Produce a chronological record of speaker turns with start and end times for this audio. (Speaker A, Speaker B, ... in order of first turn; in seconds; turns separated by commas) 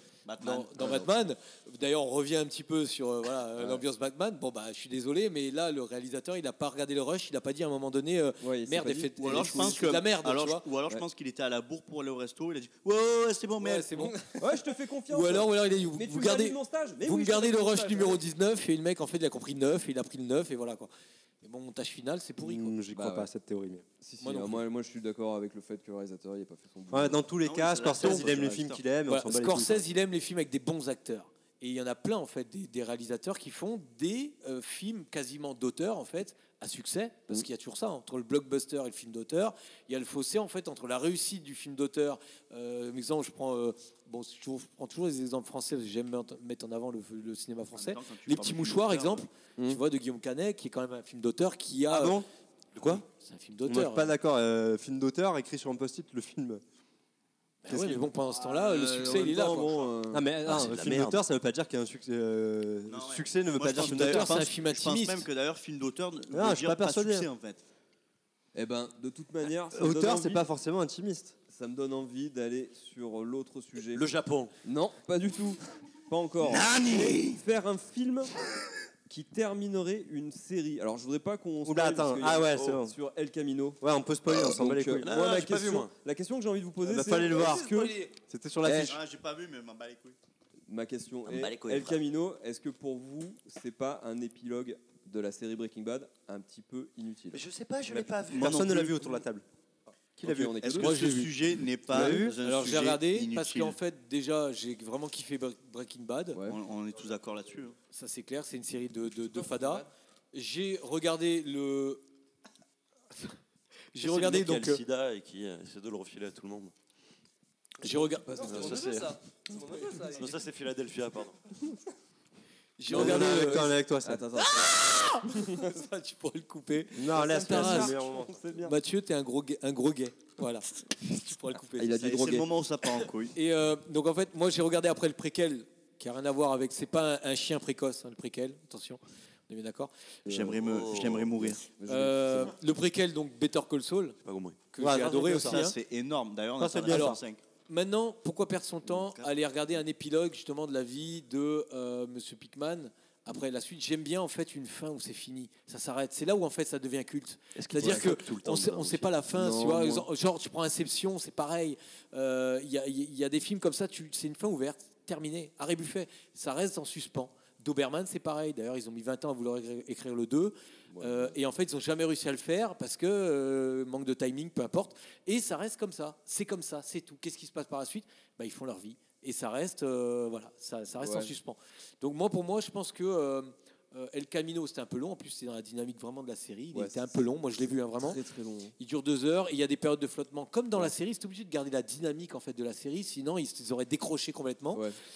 Speaker A: 0.3-1.1, Speaker B: 0.4-10.7, Speaker C: 3.6-3.8, Speaker C: 8.4-9.6, Speaker A: 9.2-14.2, Speaker B: 13.6-14.2, Speaker C: 14.4-18.2, Speaker B: 15.1-20.9, Speaker B: 21.4-22.8, Speaker D: 22.4-23.9, Speaker C: 22.9-23.3, Speaker C: 24.0-27.3, Speaker B: 24.2-24.6, Speaker D: 26.9-29.8, Speaker A: 27.4-28.8, Speaker B: 29.1-52.2, Speaker A: 47.7-49.3, Speaker D: 51.9-52.3, Speaker E: 52.8-53.0, Speaker B: 53.1-54.1, Speaker D: 53.7-56.6, Speaker B: 57.6-59.8, Speaker D: 57.7-58.1, Speaker C: 58.6-60.4, Speaker D: 60.1-64.5, Speaker E: 60.4-61.2, Speaker A: 62.9-67.6, Speaker B: 63.8-65.3, Speaker D: 66.3-67.3, Speaker C: 68.5-70.5, Speaker D: 69.7-71.4, Speaker C: 71.5-74.1, Speaker E: 73.9-74.5, Speaker C: 74.6-78.3, Speaker A: 76.5-77.2, Speaker E: 76.5-77.4, Speaker C: 79.1-83.8, Speaker D: 81.6-83.0, Speaker D: 83.8-85.1, Speaker E: 84.3-85.9, Speaker C: 84.3-88.0, Speaker D: 86.8-89.0, Speaker F: 87.3-87.9, Speaker E: 87.5-87.8, Speaker C: 88.6-89.0, Speaker A: 88.7-90.2, Speaker C: 90.7-97.5, Speaker E: 91.2-92.0, Speaker E: 97.3-98.7, Speaker D: 97.9-99.5, Speaker A: 98.3-99.2, Speaker D: 100.2-100.8, Speaker C: 100.2-101.0, Speaker A: 100.6-103.8, Speaker B: 100.8-101.3, Speaker D: 101.9-102.4, Speaker C: 101.9-102.2, Speaker B: 102.4-106.4, Speaker C: 106.3-106.6, Speaker A: 106.5-107.8, Speaker B: 107.9-112.0, Speaker F: 109.3-109.9, Speaker B: 113.9-114.8, Speaker E: 114.0-116.7, Speaker B: 117.8-118.8, Speaker F: 117.8-120.4, Speaker C: 118.3-118.9, Speaker E: 118.4-119.2, Speaker E: 120.0-121.5, Speaker B: 122.8-123.8, Speaker C: 122.9-125.7, Speaker D: 122.9-124.2, Speaker B: 124.4-128.0, Speaker D: 127.0-128.4, Speaker C: 127.1-128.8, Speaker B: 128.6-132.0, Speaker C: 131.8-132.5, Speaker A: 131.9-133.3, Speaker B: 133.3-139.9, Speaker A: 140.3-141.6, Speaker C: 140.3-142.6, Speaker E: 140.5-141.4, Speaker B: 141.9-144.2, Speaker E: 144.2-144.6, Speaker B: 144.7-145.8, Speaker D: 144.8-145.7, Speaker A: 144.9-147.4, Speaker D: 146.6-147.2, Speaker B: 146.9-188.2, Speaker A: 148.9-149.3, Speaker E: 157.6-159.2, Speaker C: 157.8-158.1, Speaker C: 159.3-160.1, Speaker C: 170.9-171.4, Speaker C: 181.0-181.3, Speaker C: 186.7-187.1, Speaker C: 188.0-188.7, Speaker B: 188.8-194.9, Speaker C: 194.7-195.0